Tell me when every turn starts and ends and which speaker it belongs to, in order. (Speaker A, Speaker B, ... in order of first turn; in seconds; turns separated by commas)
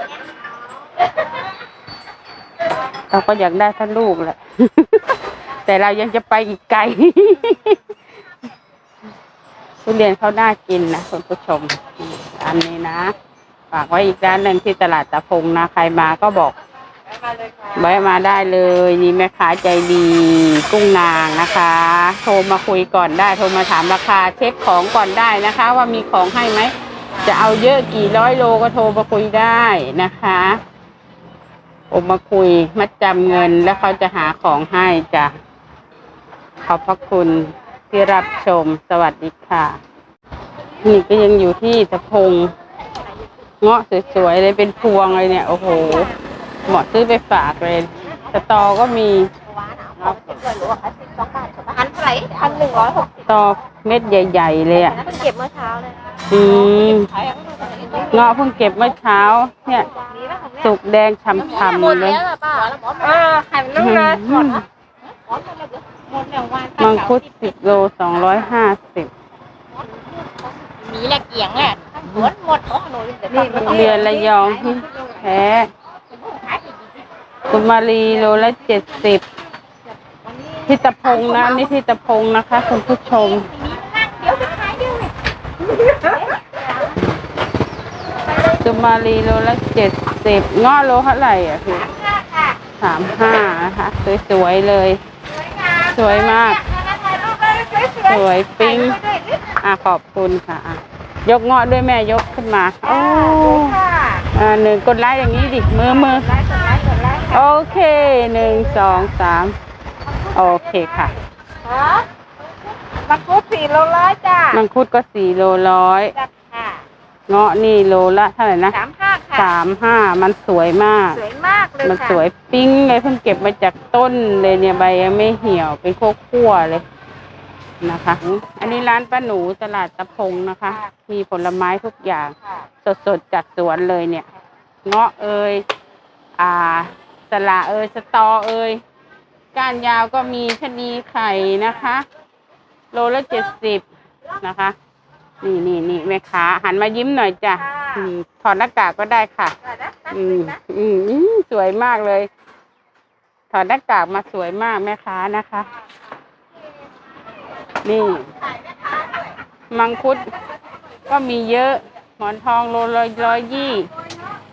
Speaker A: 3.1-7.8, Speaker A: 9.8-13.1, Speaker A: 13.7-16.6, Speaker A: 17.7-30.6, Speaker A: 31.9-35.3, Speaker A: 36.6-39.8, Speaker A: 40.8-42.5, Speaker A: 43.6-46.1, Speaker A: 46.6-49.3, Speaker B: 49.4-53.3, Speaker A: 50.0-50.4, Speaker A: 53.3-55.0, Speaker B: 54.8-58.5, Speaker A: 56.3-57.1, Speaker A: 58.1-59.9, Speaker B: 59.9-60.7, Speaker A: 60.6-62.2, Speaker B: 61.3-67.5, Speaker A: 63.7-64.7, Speaker A: 66.8-69.1, Speaker B: 69.7-74.9, Speaker A: 73.4-75.7, Speaker B: 76.1-77.1, Speaker A: 77.5-79.2, Speaker B: 80.2-81.7, Speaker A: 80.7-83.5, Speaker B: 83.3-85.1, Speaker B: 85.9-86.9, Speaker A: 88.5-91.9, Speaker B: 91.9-92.6, Speaker A: 92.8-95.0, Speaker B: 95.4-96.0, Speaker A: 95.8-96.6, Speaker B: 96.6-99.5, Speaker A: 98.0-99.0, Speaker A: 99.6-103.8, Speaker B: 102.9-104.3, Speaker A: 104.3-106.3, Speaker B: 106.0-107.5, Speaker A: 107.3-109.5, Speaker B: 110.0-112.1, Speaker A: 110.3-111.2, Speaker B: 112.8-114.6, Speaker A: 114.5-116.1, Speaker B: 116.1-116.8, Speaker A: 117.3-118.8, Speaker B: 118.7-119.5, Speaker A: 119.3-121.2, Speaker B: 121.1-122.2, Speaker A: 121.8-126.8, Speaker A: 127.8-134.3, Speaker A: 134.8-135.6, Speaker A: 136.4-138.8, Speaker A: 139.5-142.1, Speaker A: 142.9-143.8, Speaker A: 144.4-144.8, Speaker A: 145.4-149.6, Speaker B: 147.7-148.1, Speaker B: 149.8-150.5, Speaker A: 150.1-152.3, Speaker A: 153.5-155.7, Speaker A: 157.8-158.3, Speaker A: 159.7-160.3, Speaker A: 161.1-163.9